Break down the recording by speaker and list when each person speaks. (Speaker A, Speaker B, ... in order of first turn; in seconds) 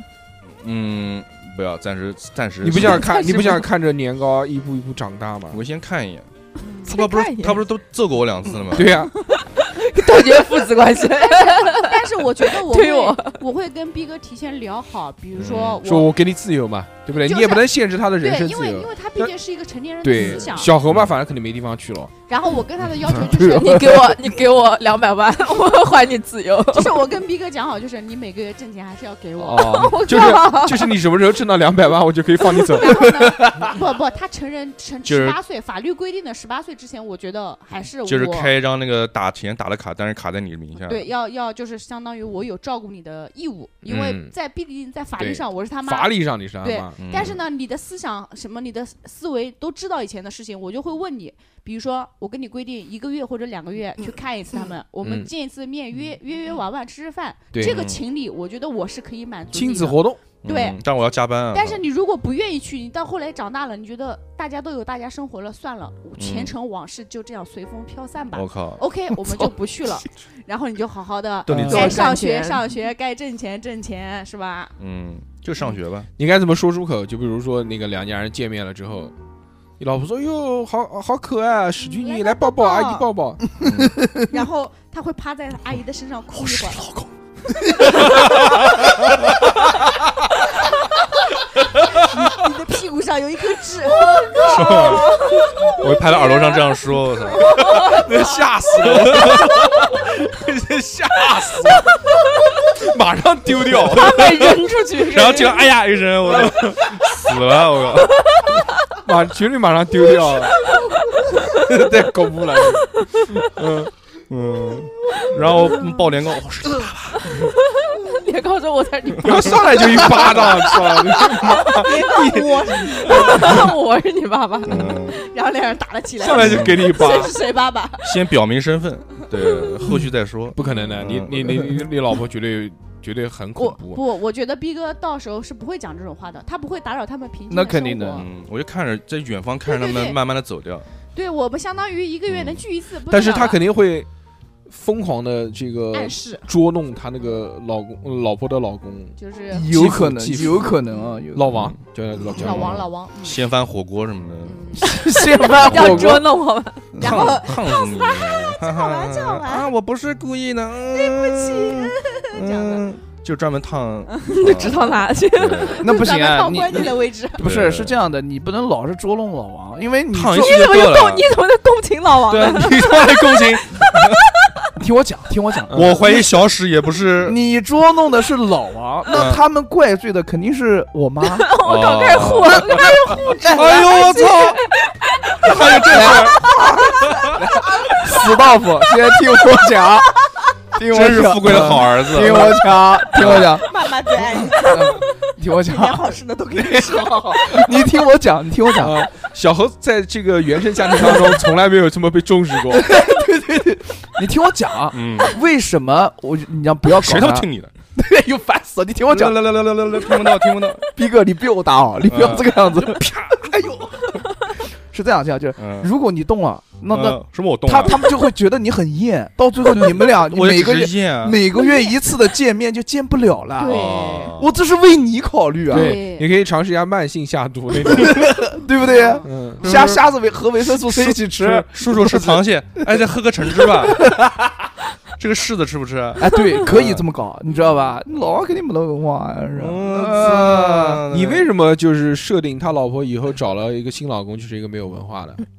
Speaker A: 0.6-3.1, 5.5-6.3, 6.9-9.0, 15.4-15.8, 20.9-21.1, 35.0-35.4, 38.1-41.1, 47.0-47.4, 57.6-58.0, 60.4-61.8, 66.2-66.5, 68.3-68.8, 71.5-72.0, 74.8-76.1, 83.6-84.0, 88.0-88.5, 94.4-97.9, 98.8-99.6, 103.7-108.2, 114.3-117.4, 119.9-121.0, 124.7-125.2, 126.4-126.9, 128.0-131.8, 138.1-140.9, 142.3-142.6, 152.2-154.6, 155.6-156.2, 157.0-165.8, 167.4-168.0, 170.1-171.3, 172.3-174.2, 175.7-177.4, 179.1-179.4, 181.6-184.6, 185.4-187.4, 190.8-192.6, 193.2-193.6, 204.9-205.4, 206.9-207.7, 209.1-210.9, 212.1-213.1, 215.6-215.9, 216.9-218.1, 219.7-221.4, 223.6-224.5, 229.6-230.0, 230.9-234.2, 235.2-237.0, 239.6-241.5
Speaker B: 2.6-5.6, 8.7-9.2, 15.5-19.3, 20.0-22.1, 29.4-33.3, 43.9-44.3, 45.2-47.0, 55.0-55.3, 57.5-57.8, 59.5-60.2, 76.2-79.2, 79.8-83.5, 94.3-94.8, 97.7-101.9, 102.6-104.5, 106.2-106.8, 109.0-110.6, 111.5-113.9, 119.2-123.7, 126.2-127.3, 130.5-134.0, 143.1-144.1, 144.7-150.7, 151.3-152.8, 155.8-156.0, 175.7-176.0, 191.4-192.7, 198.8-203.0, 225.7-228.4, 229.2-229.7, 236.7-237.0, 241.1-245.4
Speaker C: 2.8-3.6, 6.9-7.6, 9.4-13.4, 23.5-27.0, 29.6-31.0, 71.7-72.6, 103.8-105.7, 111.2-111.6, 113.0-113.4, 117.3-121.8, 122.8-125.0, 154.8-157.0, 164.3-165.8, 170.3-173.3, 174.1-174.6, 181.2-185.7
Speaker D: 6.6-6.9, 11.0-16.1, 17.1-20.7, 22.3-24.0, 26.7-30.5, 32.7-38.5, 40.8-60.8, 61.5-74.8, 81.8-83.1, 84.2-86.9, 88.0-88.3, 91.9-98.4, 121.5-123.7, 124.8-128.3, 130.6-130.9, 133.6-138.3, 139.7-140.2, 141.2-143.6, 145.9-146.5, 149.2-149.8, 150.3-151.2, 152.3-153.4, 154.4-154.9, 157.0-159.7, 160.9-162.8, 164.1-164.5, 165.8-167.5, 172.4-173.2, 182.8-184.6, 185.6-188.4, 193.2-197.8, 223.6-224.4, 225.7-226.3, 228.8-229.2, 237.5-237.8
Speaker E: 23.3-24.0, 83.8-84.1, 137.5-138.2, 149.5-151.6, 154.8-156.3, 157.0-157.3, 165.8-170.9, 174.8-176.1, 177.2-181.6, 183.2-184.1, 185.6-190.2, 190.7-193.7, 194.5-199.1, 200.9-201.4, 202.7-210.1, 210.9-214.2, 214.9-226.0, 227.8-232.9, 233.6-234.7, 236.2-241.0